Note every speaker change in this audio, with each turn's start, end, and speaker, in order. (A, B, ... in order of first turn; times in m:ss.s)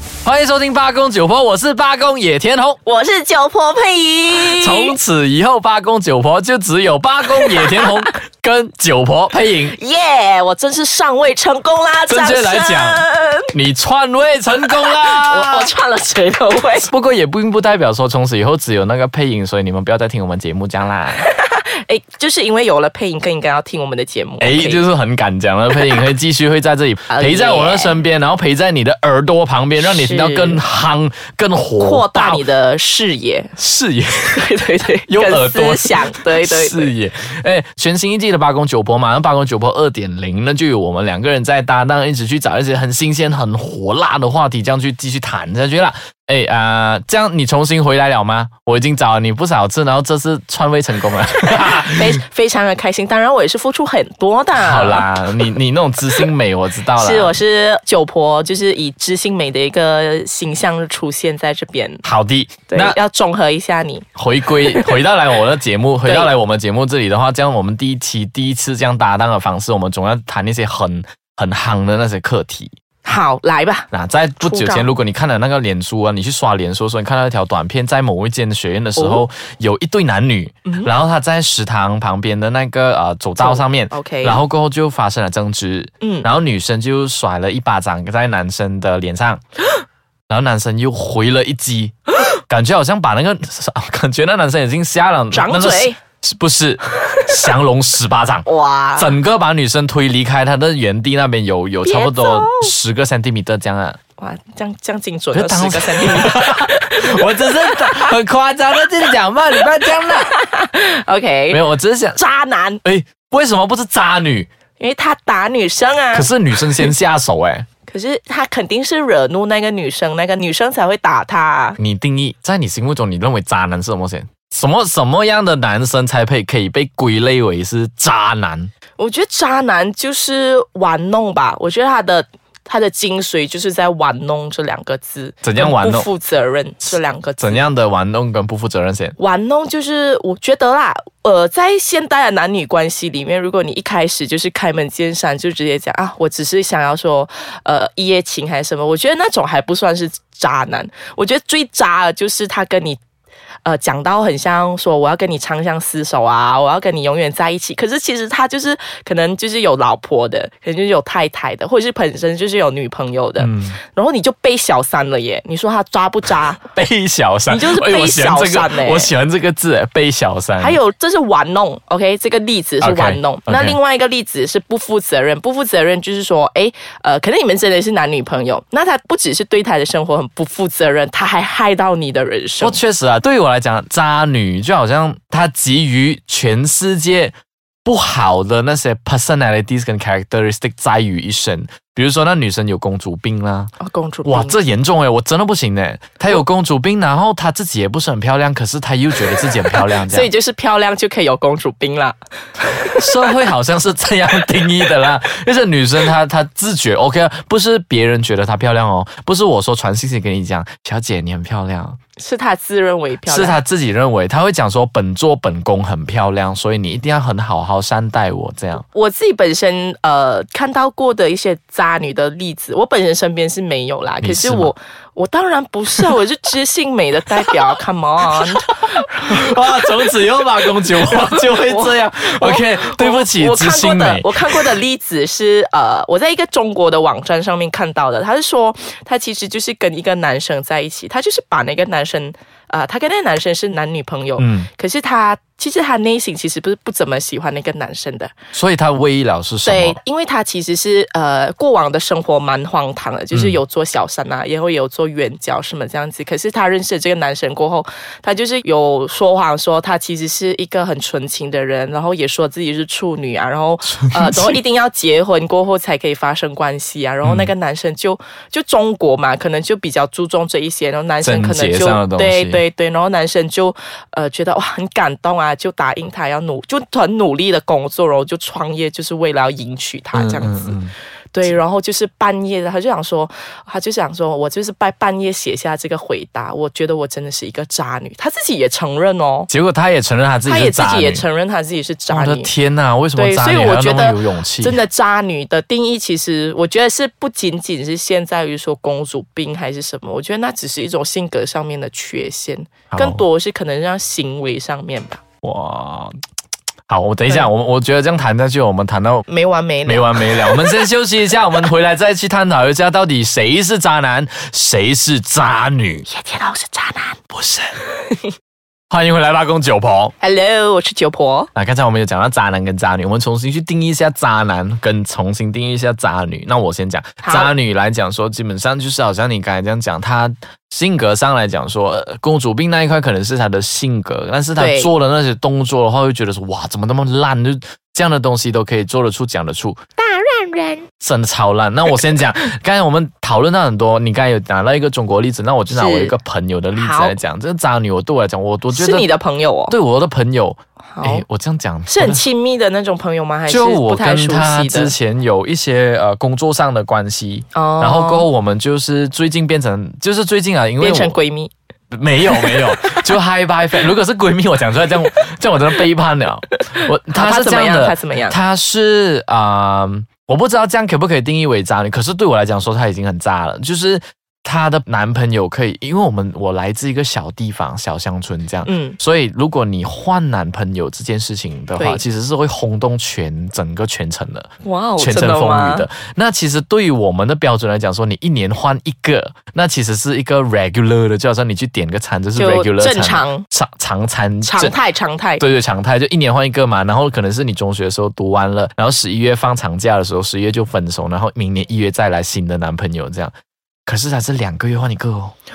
0:00.2-0:02.8 A
0:02.8-0:05.0 B
0:04.3-0:09.8 A
0:07.4-0:07.9 B
0:09.7-0:13.5 B
0:12.1-0:15.7 A
0:14.8-0:16.9 B
0:16.8-0:21.2 A
0:21.2-0:24.8 B
0:24.4-0:32.4 A
0:25.7-0:26.0 B
0:27.1-0:28.0 B
0:29.8-0:30.6 B
0:31.8-0:33.5 B
0:33.6-0:34.5 A
0:34.4-0:36.9 B
0:35.1-0:52.2 A
0:51.9-0:55.1 B
0:54.6-0:57.4 A
0:57.0-1:02.0 B
1:02.0-1:03.0 A
1:02.7-1:04.1 B
1:04.2-1:12.7 A
1:04.6-1:05.0 B
1:06.0-1:06.3 B
1:13.0-1:13.9 B
1:13.9-1:29.4 A
1:14.4-1:14.9 B
1:19.0-1:19.2 B
1:20.7-1:20.9 B
1:23.4-1:24.4 B
1:26.0-1:26.3 B
1:30.3-1:32.0 A
1:32.5-1:44.0 A
1:35.3-1:36.0 B
1:38.4-1:39.2 B
1:41.8-1:42.7 B
1:44.2-1:48.1 B
1:45.3-1:50.3 A
1:50.0-1:51.6 B
1:51.5-1:52.2 A
1:52.2-1:52.8 B
1:52.8-1:54.5 A
1:54.8-1:56.9 B
1:56.1-1:57.7 A
1:57.9-2:01.8 B
2:01.8-2:08.7 A
2:09.0-2:17.7 B
2:15.4-2:16.1 A
2:17.4-2:19.2 A
2:19.2-2:33.0 B
2:33.6-2:46.6 B
2:43.4-2:43.8 A
2:46.7-2:50.8 A
2:47.5-2:49.1 B
2:50.6-3:02.8 B
2:52.8-2:53.8 A
3:02.6-3:13.7 A
3:13.8-3:14.6 B
3:14.2-3:20.3 A
3:20.0-3:22.2 B
3:22.7-3:23.0 B
3:23.0-3:32.0 A
3:32.2-3:33.6 B
3:33.3-3:38.8 A
3:38.9-3:50.1 B
3:44.2-3:44.7 A
3:48.4-3:54.8 A
3:51.0-4:08.3 B
4:04.4-4:04.7 A
4:08.5-4:10.0 A
4:09.6-4:40.8 B
4:13.3-4:13.6 A
4:23.9-4:24.6 A
4:27.2-4:27.5 A
4:31.2-4:32.6 A
4:40.1-4:40.9 A
4:41.3-4:49.5 B
4:49.5-4:51.2 A
4:50.5-4:52.5 B
4:52.1-4:54.8 A
4:53.2-5:05.2 B
5:02.9-5:03.2 A
5:05.4-5:06.2 A
5:06.9-5:09.3 A
5:09.3-5:10.8 B
5:09.8-5:16.1 A
5:16.1-5:17.2 B
5:17.3-5:17.7 A
5:18.9-5:20.1 A
5:20.2-5:21.5 B
5:21.6-5:39.8 A
5:27.2-5:27.5 B
5:34.6-5:34.9 B
5:40.0-5:40.9 B
5:41.0-5:49.1 A
5:45.7-5:46.2 B
5:46.7-5:47.2 B
5:48.7-5:49.8 B
5:49.7-5:52.2 A
5:50.9-5:51.2 B
5:51.9-5:55.0 B
5:53.5-6:01.2 A
5:57.5-5:58.3 B
6:00.8-6:01.5 B
6:01.9-6:34.8 A
6:02.4-6:03.0 B
6:06.7-6:08.4 B
6:18.7-6:19.0 B
6:21.8-6:22.0 B
6:24.6-6:25.9 B
6:32.4-6:33.5 B
6:34.4-6:35.4 B
6:35.4-6:43.3 A
6:43.9-6:45.3 A